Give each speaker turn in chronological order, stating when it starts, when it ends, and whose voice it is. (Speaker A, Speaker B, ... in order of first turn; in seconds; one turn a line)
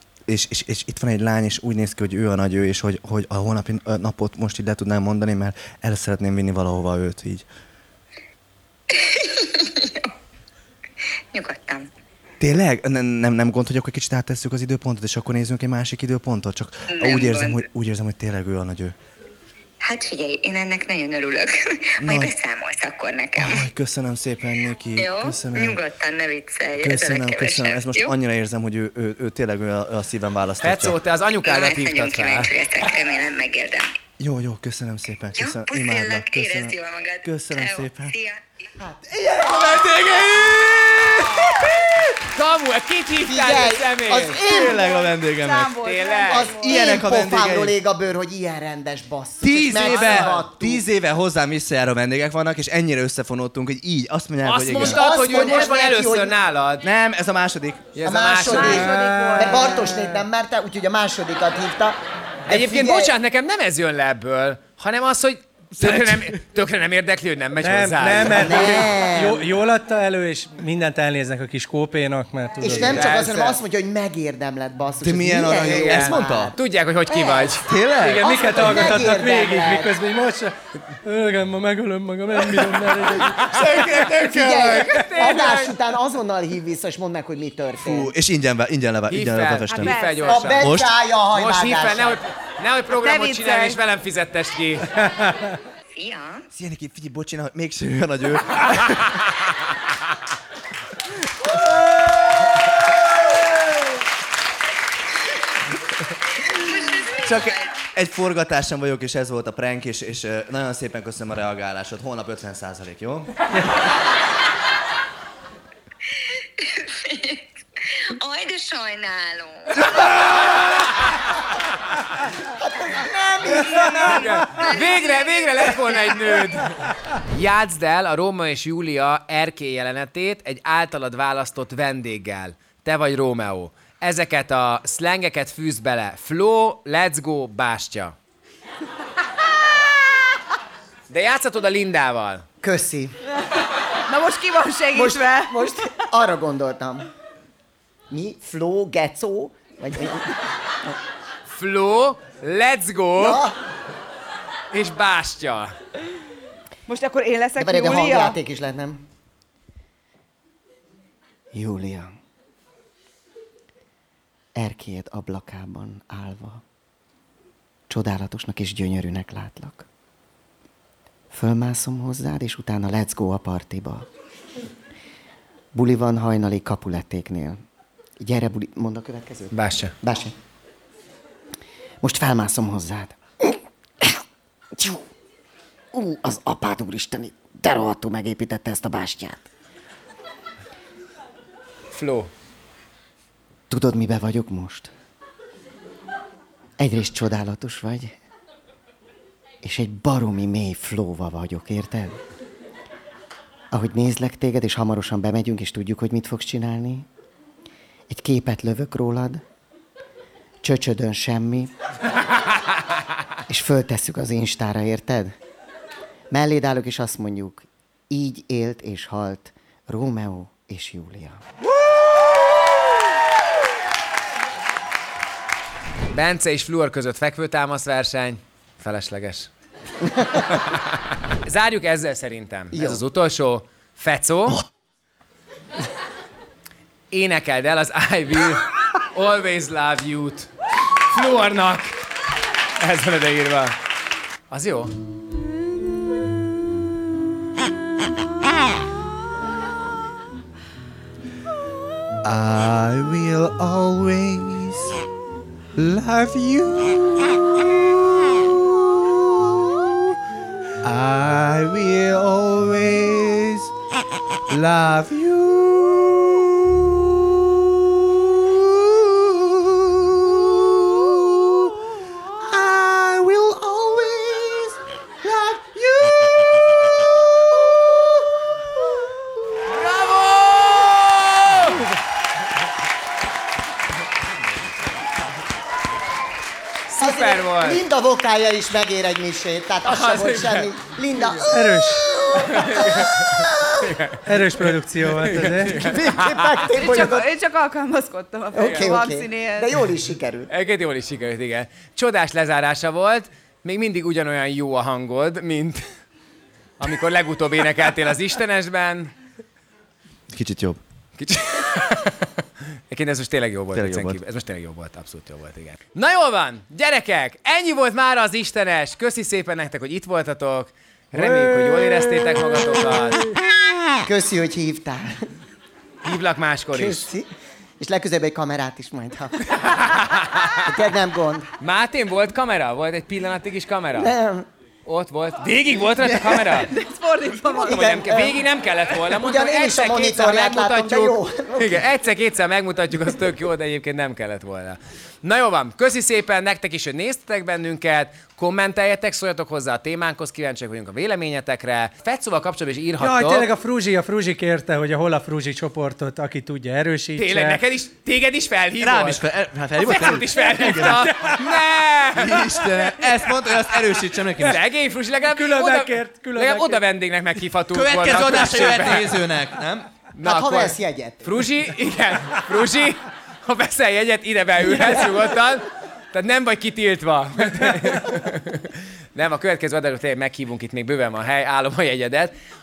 Speaker A: 0.3-7.5
Speaker B: 8.9-10.1
Speaker B: 11.3-11.9
Speaker A: 12.4-18.9
Speaker B: 16.9-17.6
Speaker B: 19.8-23.7
Speaker A: 22.0-22.3
Speaker A: 23.4-25.8
Speaker B: 24.9-28.1
Speaker A: 26.8-31.0
Speaker C: 30.6-32.5
Speaker B: 31.4-33.9
Speaker A: 34.2-38.1
Speaker B: 35.4-38.4
Speaker D: 38.8-39.9
Speaker A: 39.1-41.6
Speaker D: 41.3-42.0
Speaker C: 42.3-44.4
Speaker D: 43.2-44.8
Speaker A: 44.4-45.8
Speaker E: 44.5-46.9
Speaker C: 45.8-46.5
Speaker D: 46.3-50.9
Speaker A: 46.6-47.7
Speaker A: 49.4-55.0
Speaker C: 49.4-50.4
Speaker C: 54.4-56.8
Speaker D: 54.7-56.3
Speaker A: 56.8-57.9
Speaker C: 57.9-58.9
Speaker D: 58.0-63.1
Speaker E: 58.5-60.0
Speaker F: 58.7-60.2
Speaker C: 62.5-68.9
Speaker A: 65.8-66.3
Speaker F: 67.6-73.0
Speaker D: 68.3-69.5
Speaker D: 72.6-76.5
Speaker C: 72.7-73.6
Speaker A: 75.0-76.5
Speaker C: 75.6-77.7
Speaker D: 77.1-77.6
Speaker A: 77.6-78.8
Speaker F: 78.0-83.6
Speaker D: 78.2-79.9
Speaker A: 82.4-84.8
Speaker C: 83.2-85.7
Speaker D: 84.2-88.1
Speaker A: 87.8-90.0
Speaker C: 89.1-90.7
Speaker E: 89.7-90.5
Speaker D: 90.2-92.2
Speaker A: 90.6-90.9
Speaker C: 91.3-94.9
Speaker E: 92.9-93.8
Speaker F: 95.0-95.5
Speaker B: 95.9-96.5
Speaker A: 96.5-99.4
Speaker A: 101.4-103.8
Speaker A: 107.0-113.8
Speaker B: 116.1-119.9
Speaker D: 122.4-124.9
Speaker C: 124.0-138.2
Speaker C: 141.1-142.4
Speaker D: 142.6-143.2
Speaker E: 144.1-145.9
Speaker D: 144.9-147.1
Speaker D: 148.1-150.9
Speaker C: 151.5-153.4
Speaker D: 153.2-153.6
Speaker C: 154.7-155.7
Speaker E: 156.9-158.4
Speaker D: 157.6-159.0
Speaker D: 161.5-162.1
Speaker D: 164.5-166.6
Speaker D: 167.9-169.9
Speaker D: 171.3-174.1
Speaker D: 175.7-177.6
Speaker D: 178.2-180.3
Speaker C: 179.5-179.9
Speaker D: 182.0-184.2
Speaker D: 184.7-185.0
Speaker D: 185.9-189.4
Speaker C: 191.9-192.3
Speaker D: 193.7-194.9
Speaker D: 196.8-198.2
Speaker D: 199.6-202.2
Speaker D: 203.7-207.1
Speaker D: 208.1-209.4
Speaker D: 210.6-211.7
Speaker D: 213.5-215.3
Speaker D: 216.3-221.4
Speaker C: 226.1-229.5
Speaker D: 230.0-230.4
Speaker C: 230.5-230.8
Speaker C: 231.3-234.6
Speaker D: 232.7-233.0
Speaker C: 237.1-240.5
Speaker C: 241.1-242.0
Speaker C: 242.8-243.7
Speaker C: 244.5-244.9
Speaker A: 252.2-255.0
Speaker A: 255.7-260.1
Speaker A: 260.8-263.7
Speaker A: 264.5-271.7
Speaker A: 272.4-276.6
Speaker A: 277.5-278.1
Speaker C: 279.7-281.9
Speaker C: 286.9-287.8
Speaker D: 286.9-294.0
Speaker C: 289.8-291.4
Speaker F: 291.5-292.1
Speaker C: 292.4-294.4
Speaker F: 294.2-295.9
Speaker C: 295.1-296.5
Speaker D: 295.7-297.2
Speaker E: 296.7-299.8
Speaker D: 298.5-300.5
Speaker C: 298.6-298.9
Speaker C: 300.5-305.9
Speaker C: 306.8-309.1
Speaker A: 310.3-310.8
Speaker C: 311.2-312.3
Speaker C: 312.9-323.2
Speaker A: 313.7-314.2
Speaker F: 321.1-321.5
Speaker D: 324.0-325.2
Speaker C: 326.0-327.1
Speaker D: 326.7-327.3
Speaker D: 327.8-329.4
Speaker C: 329.5-330.7
Speaker D: 330.6-331.5
Speaker C: 331.6-334.1
Speaker D: 333.9-334.5
Speaker C: 334.9-336.7
Speaker E: 336.4-337.8
Speaker D: 337.5-341.8
Speaker C: 337.5-353.5
Speaker F: 353.0-357.6
Speaker C: 357.1-359.2
Speaker A: 358.8-361.2
Speaker C: 359.8-362.7
Speaker F: 360.8-361.2
Speaker A: 362.2-364.6
Speaker C: 364.4-369.1
Speaker F: 365.3-366.8
Speaker A: 367.7-369.9
Speaker C: 370.1-382.3
Speaker D: 370.2-371.2